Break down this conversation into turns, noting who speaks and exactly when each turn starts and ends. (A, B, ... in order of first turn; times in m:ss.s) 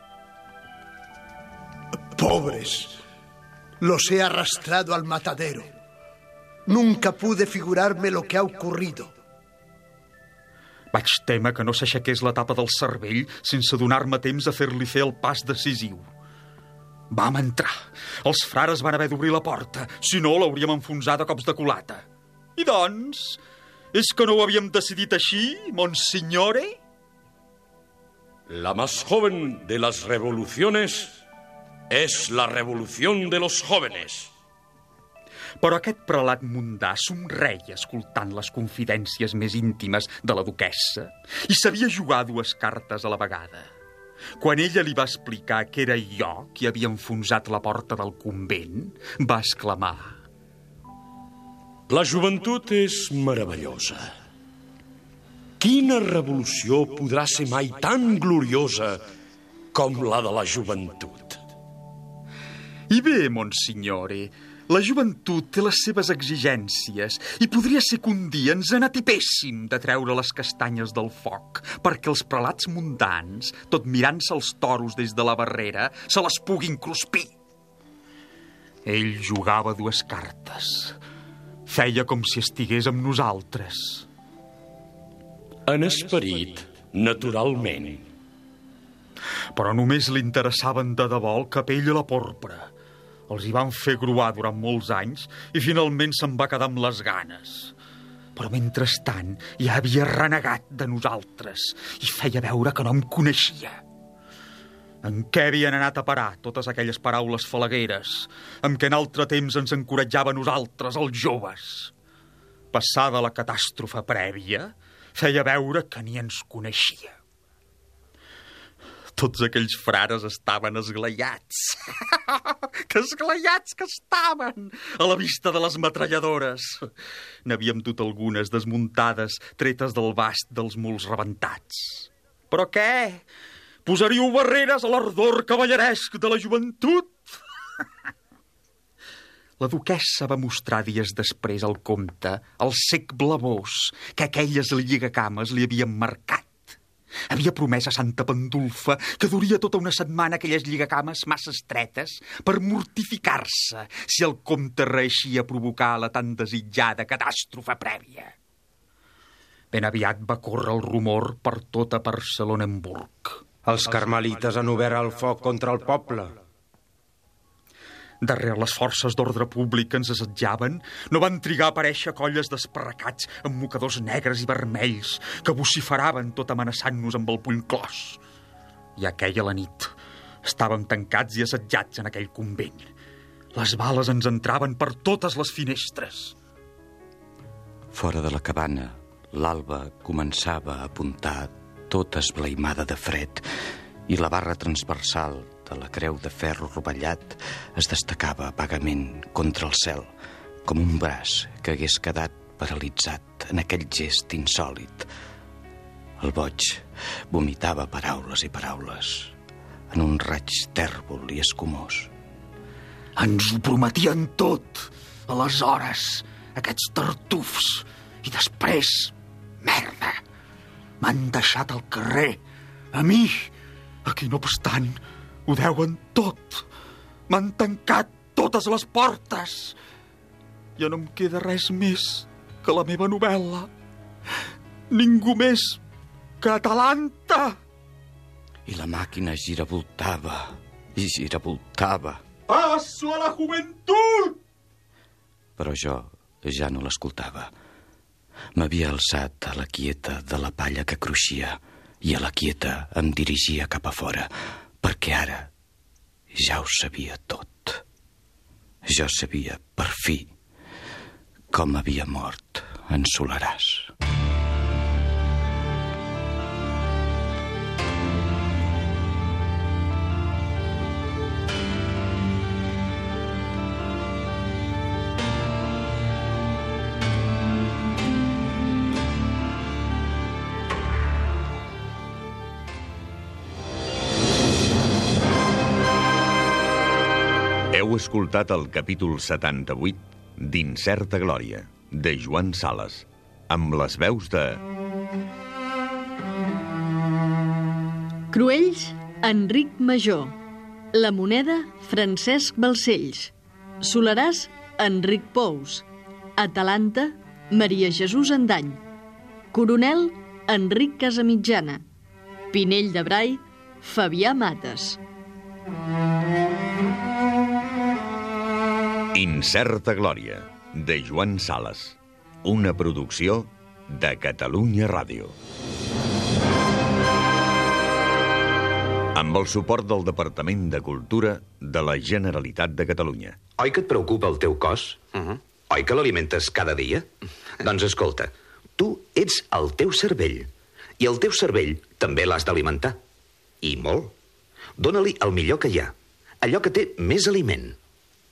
0:02.2-0:02.9 A
0:03.8-0:05.6 A
0:06.7-0:09.1 A
0:10.9-0:16.1 B
0:17.1-0:22.0 B
0:22.6-0:23.4 B
0:23.9-0:26.8 B
0:28.5-0:31.2 C
0:31.9-0:34.3 C
0:35.6-0:43.7 B
0:44.4-0:50.2 B
0:51.9-0:54.1 C
0:55.6-0:59.0 C
0:59.7-1:01.4 C
1:02.9-1:17.3 B
1:18.8-1:21.0 B
1:21.6-1:24.1 B
1:25.7-1:28.1 C
1:29.6-1:32.7 B
1:33.3-1:37.7 B
1:38.4-1:43.8 B
1:45.0-1:51.9 B
1:52.7-1:57.2 B
1:59.2-2:06.9 B
2:07.4-2:13.2 B
2:13.8-2:17.2 B
2:19.6-2:26.7 B
2:27.3-2:38.3 B
2:39.7-2:43.4 B
2:43.6-2:46.4 D
2:48.2-2:58.2 B
2:59.0-3:02.9 B
3:03.5-3:06.4 B
3:07.9-3:13.5 E
3:14.1-3:20.1 E
3:20.6-3:25.1 E
3:26.2-3:29.3 E
3:29.9-3:32.1 E
3:33.2-3:40.2 B
3:41.0-3:42.4 B
3:42.9-3:43.5 B
3:44.1-3:46.6 B
3:47.3-3:49.8 B
3:50.8-3:53.7 B
3:54.9-3:55.8 B
3:56.4-3:57.6 B
3:58.6-4:02.2 E
4:02.5-4:04.4 B
4:05.6-4:07.5 E
4:08.6-4:14.3 E
4:14.8-4:15.5 E
4:16.3-4:17.8 E
4:18.8-4:20.3 E
4:21.5-4:23.9 E
4:47.7-4:54.6 F
4:58.3-5:00.4 G
5:00.9-5:08.8 G
5:09.5-5:11.8 G
5:12.5-5:15.0 G
5:19.1-5:25.4 F
5:29.1-5:33.4 F
5:33.6-5:37.1 H
5:37.6-5:43.0 H
5:43.6-5:44.1 H
5:44.8-5:47.8 H